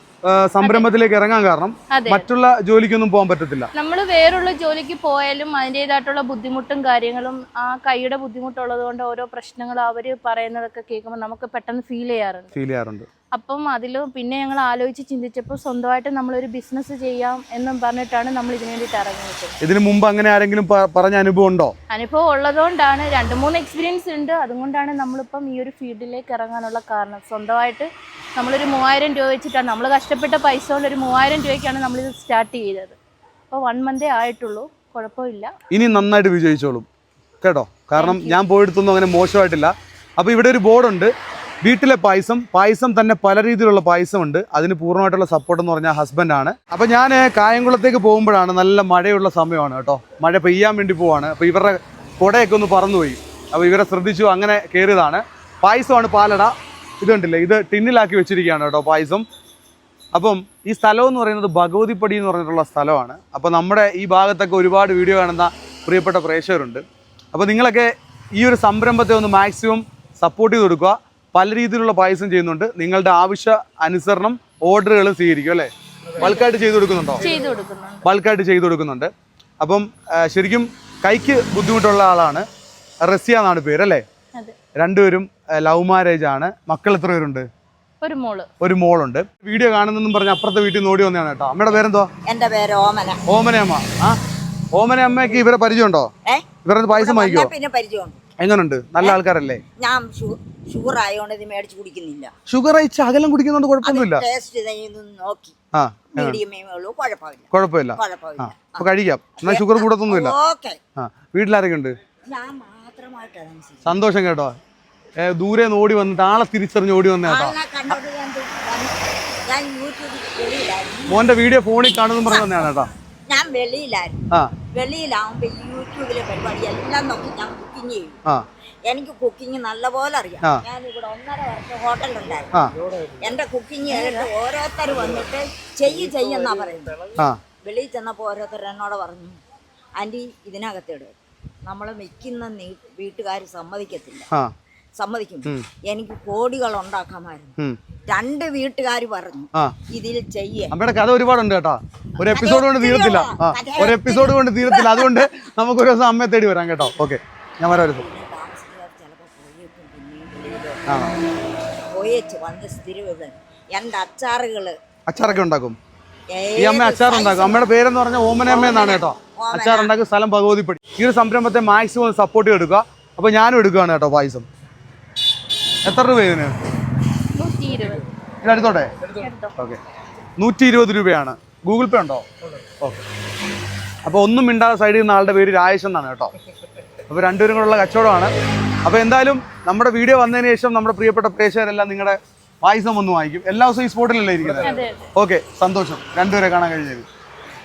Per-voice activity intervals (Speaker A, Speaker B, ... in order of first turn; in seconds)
Speaker A: 0.3-3.7, 12.5-13.1, 19.6-21.7, 35.7-36.9, 37.4-41.1, 41.6-59.2, 60.1-66.8, 67.3-77.2, 78.0-82.5, 83.0-84.0, 84.8-87.5, 88.6-92.1, 93.3-94.2, 94.7-96.1, 96.6-97.5, 98.4-99.6, 102.5-104.2, 105.7-106.4, 107.5-110.3, 111.0-111.9, 113.8-114.5, 115.2-117.5, 121.1-122.9, 150.7-158.1, 160.9-161.1, 165.1-165.8, 166.6-174.4, 175.8-176.5, 178.4-178.9, 180.4-182.2, 184.0-186.3, 187.1-188.3, 188.8-197.1
Speaker B: 0.6-0.9, 1.9-2.3, 3.7-12.5, 13.3-19.6, 21.9-33.0, 33.5-35.5, 37.9-38.4, 76.2-76.5, 77.2-78.1, 88.0-88.5, 177.3-178.1, 179.2-179.5, 194.6-195.1
Speaker C: 92.2-93.2, 96.2-98.2, 99.8-102.3, 103.8-105.5, 106.1-108.9, 109.4-110.8, 112.3-114.0, 117.2-121.2, 122.3-122.7, 123.3-124.2, 124.7-128.2, 128.8-132.7, 133.2-137.1, 137.6-139.4, 140.0-141.1, 141.6-144.3, 145.0-147.5, 148.1-150.7, 152.2-155.3, 157.9-160.8, 161.9-164.8, 166.3-167.7, 168.4-169.9